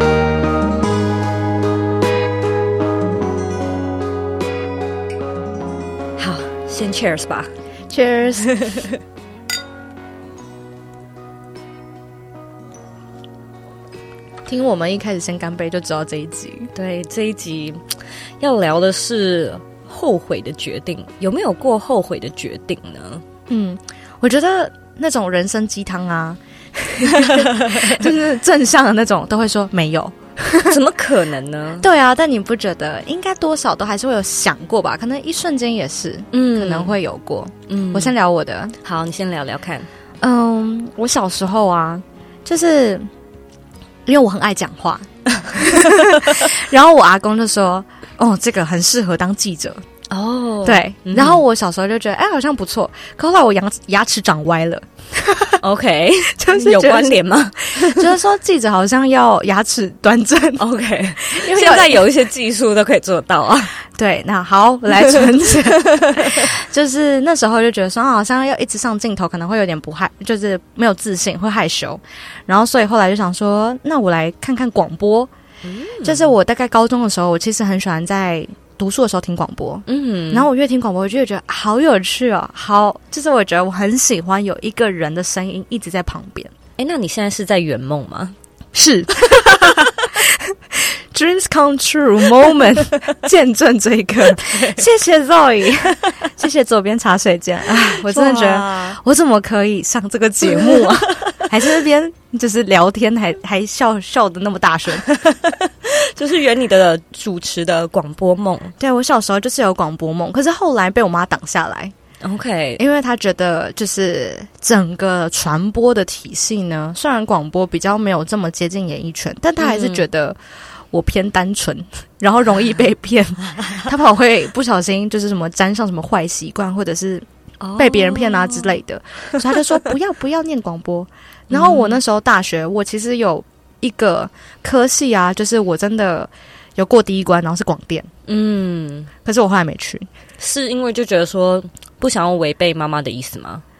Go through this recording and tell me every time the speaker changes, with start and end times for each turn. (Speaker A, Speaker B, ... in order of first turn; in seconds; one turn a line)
Speaker A: 6.2-7.5
Speaker B: 7.9-8.6
Speaker A: 8.4-8.9
Speaker B: 14.5-16.7
Speaker A: 16.7-17.8
Speaker A: 18.4-23.2
Speaker B: 23.5-30.8
Speaker A: 27.2-27.9
Speaker A: 30.6-31.9
Speaker B: 31.8-38.7
Speaker A: 36.3-37.0
Speaker A: 37.7-38.1
Speaker A: 38.8-39.9
Speaker B: 40.2-43.1
Speaker B: 44.0-49.8
Speaker A: 50.1-51.4
Speaker B: 50.6-55.6
Speaker A: 55.6-58.1
Speaker B: 56.3-60.6
Speaker A: 60.6-63.8
Speaker B: 61.2-62.1
Speaker B: 64.0-75.3
Speaker A: 66.2-66.5
Speaker A: 75.6-76.3
Speaker B: 76.0-86.5
Speaker A: 79.9-80.5
Speaker A: 86.8-88.3
Speaker B: 88.7-105.1
Speaker A: 94.3-94.8
Speaker A: 97.8-99.0
Speaker A: 100.5-101.5
Speaker A: 105.0-108.7
Speaker B: 108.8-111.9
Speaker A: 112.2-112.8
Speaker B: 112.8-120.4
Speaker A: 119.6-120.0
Speaker B: 120.9-127.2
Speaker A: 123.5-123.8
Speaker A: 127.6-128.8
Speaker B: 127.8-138.1
Speaker A: 129.3-129.7
Speaker A: 131.5-132.0
Speaker A: 138.3-139.1
Speaker B: 139.2-140.1
Speaker A: 140.4-143.6